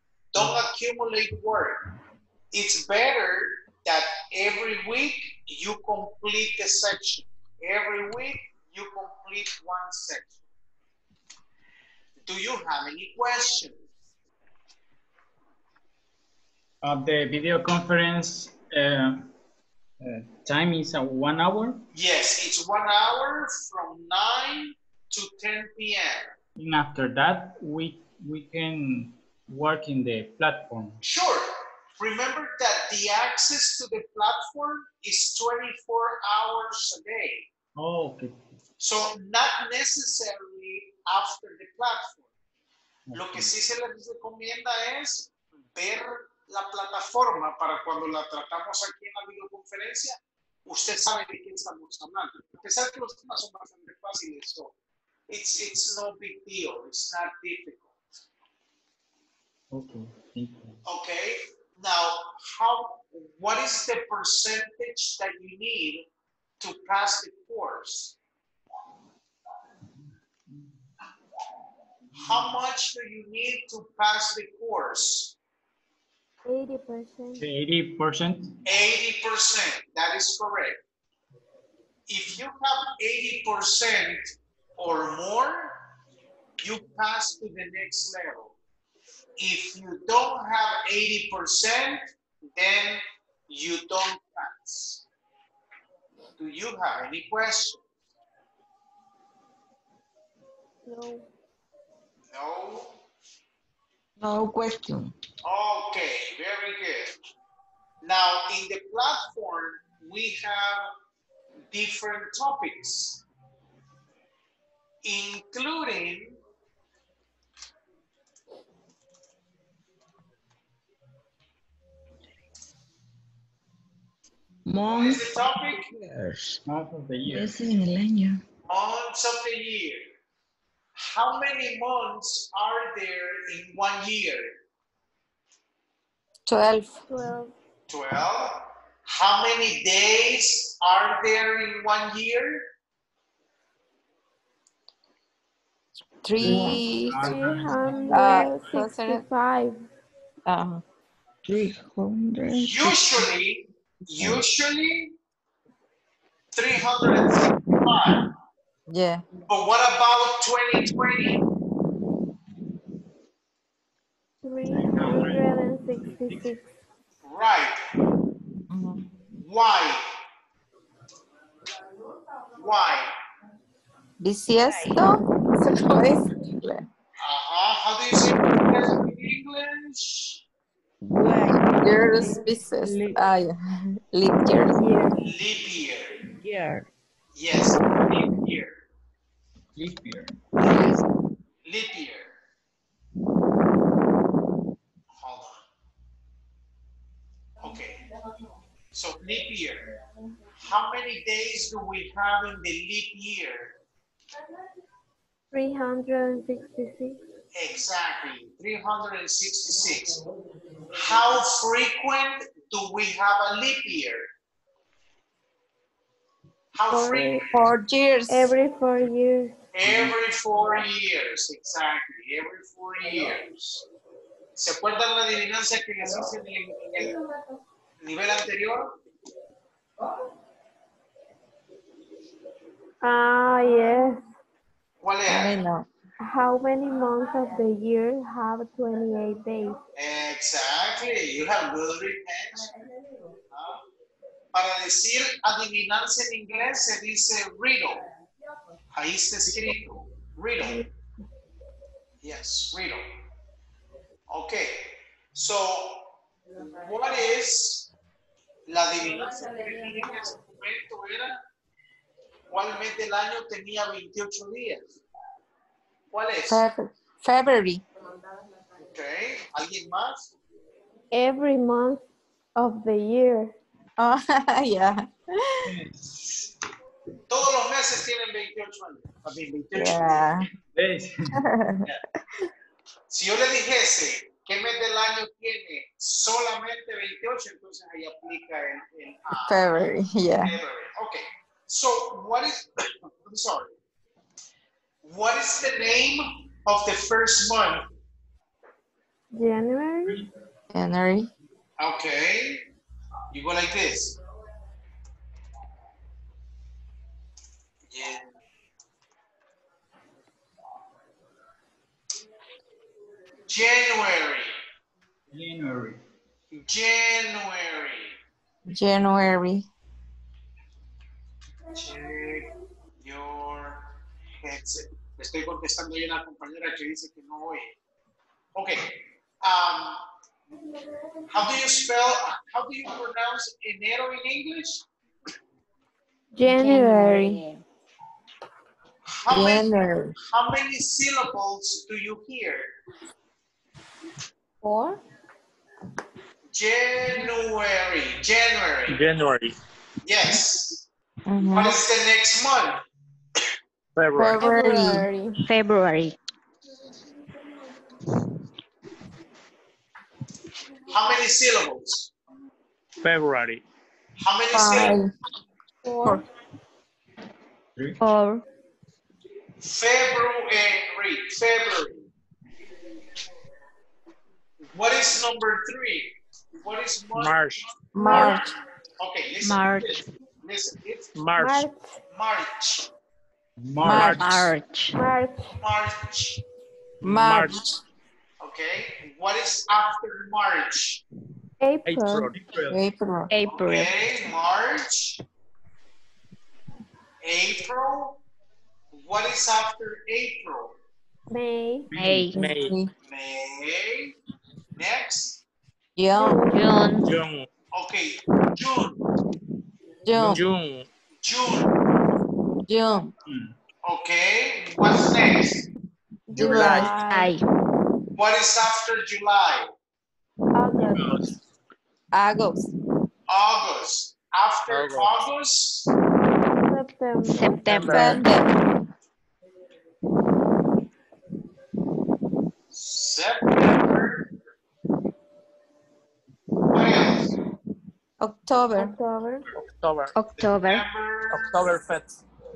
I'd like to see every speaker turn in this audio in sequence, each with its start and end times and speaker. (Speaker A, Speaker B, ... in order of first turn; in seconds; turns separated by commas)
Speaker A: 0.3-1.8, Speaker B: 0.3-0.6, Speaker A: 2.5-10.3, Speaker A: 12.2-13.7, Speaker B: 16.8-19.3, Speaker B: 20.0-21.9, Speaker A: 21.9-26.4, Speaker B: 26.6-31.0, Speaker A: 31.0-37.5, Speaker B: 37.8-38.4, Speaker A: 38.8-42.2, Speaker B: 43.1-43.5, Speaker A: 43.1-54.7, Speaker A: 55.3-57.9, Speaker B: 59.7-60.8, Speaker A: 60.8-66.0, Speaker A: 66.6-68.2, Speaker A: 72.2-75.3, Speaker C: 76.4-77.4, Speaker B: 77.4-78.5, Speaker A: 78.6-80.8, Speaker A: 82.1-85.8, Speaker A: 86.6-88.5, Speaker A: 89.4-95.0, Speaker A: 96.4-97.8, Speaker C: 100.8-101.3, Speaker A: 102.3-103.0, Speaker D: 104.2-105.1, Speaker A: 105.4-107.2, Speaker A: 108.0-110.9, Speaker A: 111.7-113.2, Speaker A: 115.0-116.4, Speaker D: 124.7-126.6, Speaker A: 124.9-125.9, Speaker B: 126.6-127.6, Speaker D: 127.3-128.4, Speaker A: 128.7-130.1, Speaker A: 130.9-134.5, Speaker E: 136.4-137.0, Speaker C: 137.1-137.5, Speaker A: 137.9-142.7, Speaker E: 146.2-147.3, Speaker B: 146.4-148.7, Speaker D: 146.4-146.8, Speaker C: 147.1-149.8, Speaker E: 148.1-149.2, Speaker E: 150.4-150.8, Speaker D: 151.4-153.3, Speaker A: 152.6-155.1, Speaker A: 156.5-158.3, Speaker E: 158.9-159.2, Speaker A: 159.5-161.4, Speaker C: 164.4-166.7, Speaker B: 164.7-165.5, Speaker A: 167.2-167.8, Speaker E: 168.7-169.1, Speaker A: 169.3-170.1, Speaker A: 172.5-173.1, Speaker E: 174.2-176.9, Speaker A: 177.2-180.4, Speaker D: 181.0-183.2, Speaker E: 181.5-184.8, Speaker D: 184.7-185.2, Speaker A: 185.2-186.2, Speaker D: 186.2-186.9, Speaker A: 187.3-188.8, Speaker B: 189.8-190.9, Speaker A: 191.6-192.3, Speaker A: 195.1-195.6, Speaker A: 197.6-198.0, Speaker A: 198.9-199.8, Speaker A: 200.6-203.7, Speaker C: 205.5-207.2, Speaker A: 207.5-210.2, Speaker A: 210.9-214.3, Speaker A: 216.7-217.7, Speaker C: 216.9-217.4, Speaker E: 217.5-218.5, Speaker C: 218.3-219.5, Speaker A: 219.7-223.8, Speaker B: 219.8-220.1, Speaker A: 224.6-227.2, Speaker A: 228.0-228.9, Speaker C: 233.0-234.2, Speaker A: 235.0-235.6, Speaker E: 235.2-235.9, Speaker C: 236.2-239.8, Speaker A: 239.9-242.7, Speaker A: 243.5-243.8, Speaker A: 244.5-248.1, Speaker A: 248.9-250.8, Speaker A: 252.2-253.1, Speaker A: 254.3-257.9, Speaker A: 258.7-261.4, Speaker A: 262.5-265.0, Speaker A: 266.1-266.6, Speaker E: 266.5-267.8, Speaker A: 268.9-270.3, Speaker C: 271.1-272.0, Speaker C: 272.6-273.6, Speaker E: 274.0-275.7, Speaker B: 275.6-276.4, Speaker A: 277.3-280.3, Speaker E: 279.7-280.5, Speaker B: 280.7-281.4, Speaker E: 281.3-282.0, Speaker A: 283.1-289.9, Speaker E: 289.4-290.5, Speaker A: 290.4-293.7, Speaker A: 295.0-297.9, Speaker C: 299.3-300.2, Speaker E: 300.7-301.3, Speaker A: 301.8-302.6, Speaker A: 303.3-304.2, Speaker A: 307.9-308.3, Speaker A: 313.5-314.5, Speaker B: 315.3-316.0, Speaker A: 316.5-318.1, Speaker E: 318.7-319.7, Speaker A: 321.7-323.9, Speaker A: 324.4-327.7, Speaker A: 328.5-328.9, Speaker A: 329.4-330.0, Speaker A: 331.3-334.8, Speaker C: 336.3-337.4, Speaker F: 336.4-337.6, Speaker A: 339.1-342.7, Speaker E: 339.3-340.1, Speaker C: 344.6-345.0, Speaker A: 346.5-349.0, Speaker G: 348.9-349.5, Speaker A: 350.0-350.8, Speaker E: 351.3-351.8, Speaker A: 351.5-352.8, Speaker G: 353.9-354.4, Speaker E: 354.1-355.1, Speaker C: 354.4-355.4, Speaker F: 355.4-356.2, Speaker A: 360.9-362.1, Speaker G: 363.0-363.6, Speaker A: 364.2-365.0, Speaker E: 364.5-365.1, Speaker C: 365.8-366.2, Speaker B: 367.8-368.0, Speaker F: 368.0-368.4, Speaker A: 369.6-372.1, Speaker A: 374.7-377.6, Speaker G: 377.1-378.3, Speaker E: 377.9-378.5, Speaker C: 378.0-378.3, Speaker A: 378.1-381.1, Speaker F: 379.4-380.0, Speaker G: 381.1-381.6, Speaker C: 381.4-382.0, Speaker A: 382.1-382.9, Speaker B: 383.6-384.3, Speaker E: 383.8-384.2, Speaker G: 383.8-384.5, Speaker F: 384.2-385.0, Speaker C: 384.9-385.6, Speaker A: 385.6-386.4, Speaker E: 387.0-387.7, Speaker G: 387.0-387.7, Speaker A: 388.4-391.0, Speaker C: 391.6-392.3, Speaker G: 391.9-392.4, Speaker B: 392.3-392.8, Speaker E: 392.7-393.3, Speaker F: 393.3-393.9, Speaker A: 393.6-395.2, Speaker A: 397.2-398.2, Speaker A: 398.9-400.8, Speaker C: 401.3-401.9, Speaker B: 401.9-402.3, Speaker F: 401.9-402.4, Speaker G: 402.3-402.7, Speaker E: 402.3-402.9, Speaker A: 403.0-404.1, Speaker A: 404.8-405.4, Speaker E: 406.0-406.4, Speaker C: 406.1-406.6, Speaker F: 406.5-407.1, Speaker G: 407.0-407.5, Speaker A: 407.7-409.0, Speaker E: 410.0-410.4, Speaker G: 410.1-410.9, Speaker A: 411.2-411.7, Speaker E: 412.6-413.1, Speaker B: 413.2-413.5, Speaker A: 413.8-415.6, Speaker C: 416.3-417.3, Speaker E: 416.4-417.1, Speaker D: 416.5-416.8, Speaker B: 416.5-416.8, Speaker F: 416.6-417.4, Speaker A: 418.1-419.7, Speaker C: 420.5-421.1, Speaker B: 420.8-421.4, Speaker E: 422.1-422.7, Speaker A: 423.3-425.9, Speaker G: 424.7-425.1, Speaker C: 426.6-428.0, Speaker F: 427.2-428.3, Speaker G: 427.6-428.2, Speaker E: 427.9-428.5, Speaker A: 432.7-434.2, Speaker A: 436.7-437.4, Speaker E: 438.2-438.9, Speaker C: 438.7-439.5, Speaker G: 439.5-440.1, Speaker F: 440.1-440.9, Speaker A: 440.4-441.7, Speaker G: 441.3-442.2